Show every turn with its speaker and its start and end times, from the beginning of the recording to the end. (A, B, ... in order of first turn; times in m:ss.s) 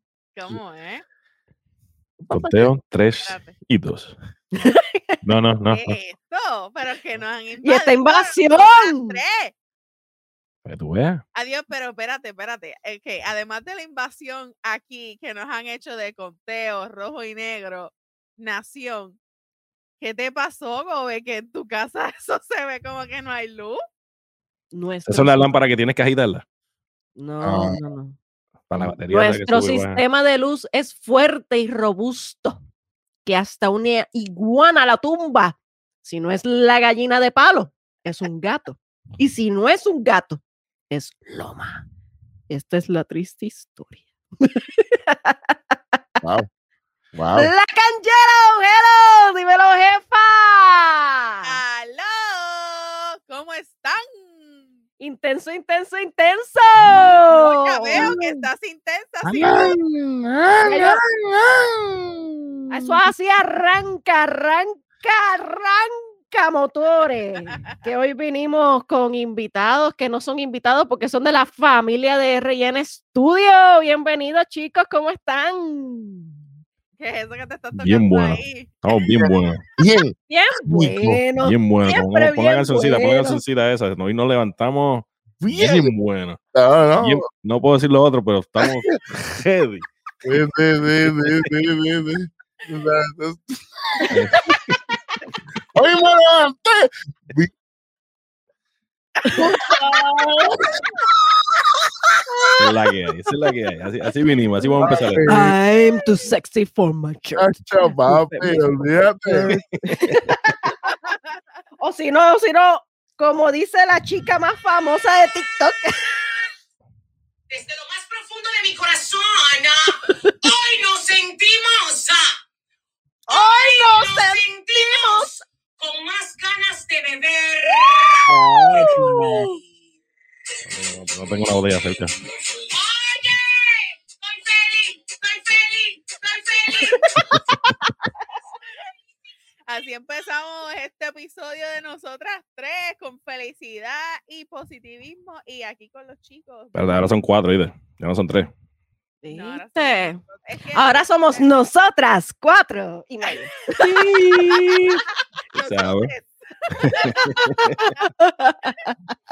0:00.4-0:01.0 A
0:02.2-0:02.7 B
0:02.3-0:04.2 C
0:03.2-0:03.6 A
0:04.6-0:05.2 D
0:05.2-0:06.0 C
0:05.7-0:09.5 A
0:07.6-0:09.2 D
0:10.6-0:11.2 C
0:11.4-0:19.2 A
0:20.0-0:23.8 A
0:24.7-0:25.5 D
0:25.1-0:26.4 C
0:27.2-0:28.2 D
0:27.4-0:27.8 B
0:28.7-0:30.0 C
0:29.1-0:32.6 D
0:33.2-0:41.8 D
0:42.5-0:45.5 D
0:46.2-0:46.5 B
0:47.1-0:47.5 B
0:47.4-0:51.6 D
0:51.4-0:54.7 A
0:55.0-0:58.2 D
0:57.3-0:59.8 A
0:58.0-0:58.3 B
0:59.3-1:03.0 B
1:00.6-1:01.0 D
1:02.7-1:16.3 D
1:17.0-1:18.7 A
1:17.8-1:19.6 C
1:19.2-1:20.1 B
1:20.3-1:23.4 D
1:20.7-1:21.2 B
1:21.4-1:26.4 C
1:25.4-1:25.9 B
1:26.5-1:27.2 B
1:27.0-1:29.8 C
1:30.2-1:34.2 B
1:31.1-1:31.5 C
1:34.1-1:34.8 C
1:35.7-1:37.5 B
1:39.3-1:39.8 A
1:40.0-1:40.9 B
1:42.6-1:45.3 C
1:44.8-1:45.6 B
1:45.2-1:48.6 D
1:47.4-1:49.6 B
1:49.3-1:50.9 D
1:49.9-1:50.1 C
1:50.8-1:51.2 A
1:51.8-1:56.1 D
1:57.5-2:02.4 E
2:00.0-2:00.5 D
2:03.3-2:05.4 D
2:03.3-2:05.3 E
2:05.8-2:08.2 E
2:08.3-2:09.5 B
2:08.3-2:09.6 D
2:10.7-2:12.2 C
2:12.4-2:17.3 E
2:16.8-2:17.1 D
2:19.7-2:27.2 A
2:26.7-2:28.5 C
2:29.2-2:30.2 D
2:29.3-2:31.5 A
2:30.7-2:35.0 D
2:33.7-2:34.6 A
2:35.5-2:37.4 A
2:35.6-2:36.1 C
2:36.8-2:37.7 C
2:37.1-2:38.9 D